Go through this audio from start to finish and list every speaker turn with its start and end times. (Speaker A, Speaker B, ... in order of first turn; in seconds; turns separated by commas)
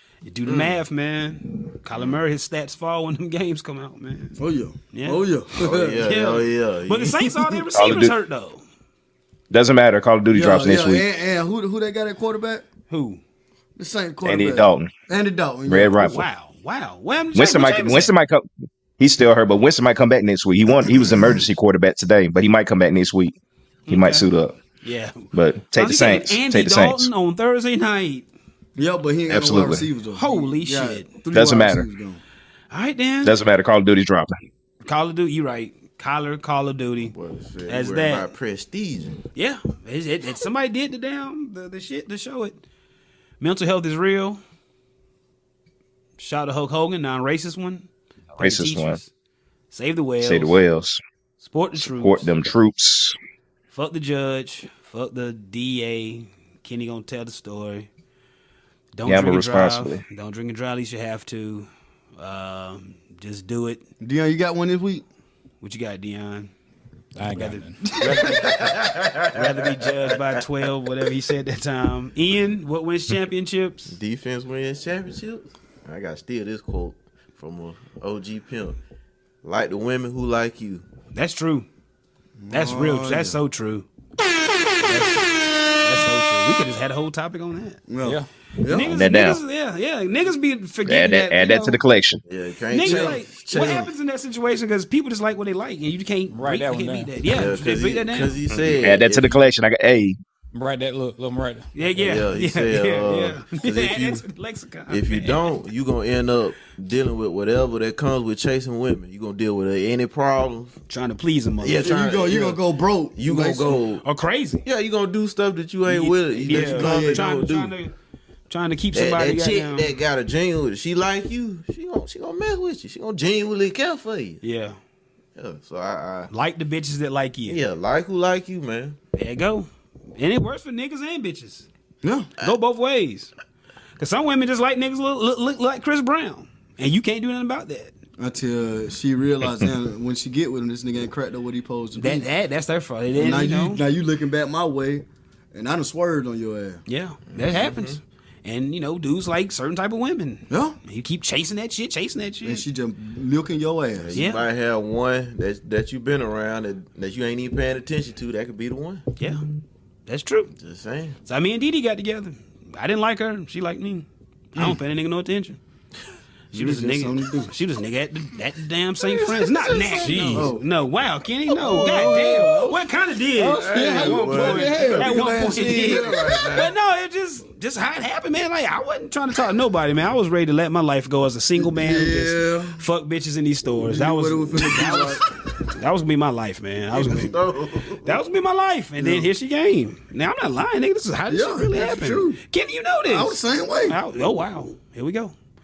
Speaker A: 0.2-4.4, Speaker B: 0.5-0.8, Speaker B: 1.9-2.2, Speaker C: 4.4-6.0, Speaker A: 4.9-5.2, Speaker B: 5.6-7.3, Speaker A: 6.0-8.6, Speaker D: 7.7-8.1, Speaker D: 9.5-11.0, Speaker C: 10.3-12.6, Speaker A: 12.9-13.2, Speaker C: 13.8-16.2, Speaker D: 14.2-14.9, Speaker D: 15.7-16.2, Speaker A: 15.9-18.1, Speaker D: 17.3-18.5, Speaker D: 19.0-23.4, Speaker A: 23.9-24.3, Speaker D: 23.9-24.6, Speaker A: 24.8-25.2, Speaker D: 25.3-27.1, Speaker A: 25.7-28.2, Speaker C: 28.8-32.2, Speaker D: 29.3-29.8, Speaker A: 30.1-31.1, Speaker D: 31.3-31.8, Speaker A: 32.7-33.4, Speaker D: 33.2-34.3, Speaker A: 34.8-37.1, Speaker B: 37.0-39.2, Speaker A: 37.7-38.3, Speaker A: 39.3-42.6, Speaker A: 43.4-44.4, Speaker A: 46.2-49.1, Speaker D: 48.4-49.0, Speaker A: 49.7-50.6, Speaker D: 50.2-51.0, Speaker A: 51.4-52.3, Speaker D: 51.8-53.1, Speaker A: 53.7-57.9, Speaker A: 58.9-63.8, Speaker D: 59.0-60.0, Speaker C: 64.0-65.0, Speaker A: 65.6-66.5, Speaker E: 67.2-67.8, Speaker A: 67.3-74.0, Speaker B: 68.2-70.4, Speaker B: 73.9-78.8, Speaker B: 79.4-80.8, Speaker A: 81.1-81.7, Speaker C: 82.4-83.4, Speaker A: 82.5-83.8, Speaker A: 84.9-87.8, Speaker C: 87.9-88.9, Speaker A: 88.7-91.8, Speaker D: 88.9-89.4, Speaker D: 90.8-92.2, Speaker B: 92.2-93.8, Speaker A: 92.7-98.4, Speaker C: 92.8-93.9, Speaker E: 96.3-97.1, Speaker B: 97.2-99.4, Speaker D: 98.5-100.2, Speaker E: 100.5-101.7, Speaker A: 101.7-105.5, Speaker B: 101.9-104.2, Speaker B: 104.9-110.7, Speaker A: 110.9-111.9, Speaker B: 111.6-112.6, Speaker C: 111.8-113.8, Speaker B: 113.1-114.0, Speaker A: 114.0-114.6, Speaker B: 114.6-117.7, Speaker A: 115.8-117.9, Speaker C: 116.5-117.3, Speaker A: 118.5-119.9, Speaker B: 118.9-124.4, Speaker A: 124.4-124.8, Speaker B: 125.3-126.3, Speaker A: 126.3-127.6, Speaker B: 127.5-129.0, Speaker A: 129.2-131.7, Speaker C: 132.0-132.3, Speaker A: 132.4-133.3, Speaker A: 134.0-137.9, Speaker C: 138.2-142.3, Speaker A: 141.9-143.8, Speaker C: 143.1-146.8, Speaker A: 146.9-152.6, Speaker B: 147.3-148.0, Speaker C: 150.5-150.8, Speaker C: 152.4-154.2, Speaker B: 154.0-159.0, Speaker A: 154.1-154.4, Speaker A: 159.2-159.4, Speaker A: 160.1-160.5, Speaker B: 160.6-161.2, Speaker A: 161.2-165.6, Speaker C: 166.5-167.5, Speaker A: 166.5-187.3, Speaker B: 169.0-170.4, Speaker E: 170.0-170.5, Speaker C: 170.3-170.6, Speaker B: 171.5-172.8, Speaker C: 171.8-172.7, Speaker C: 173.4-176.5, Speaker B: 173.4-176.7, Speaker C: 181.6-182.8, Speaker C: 183.8-185.2, Speaker B: 186.9-188.2, Speaker A: 188.0-195.3, Speaker C: 189.0-189.3, Speaker C: 191.3-192.4, Speaker C: 193.1-194.0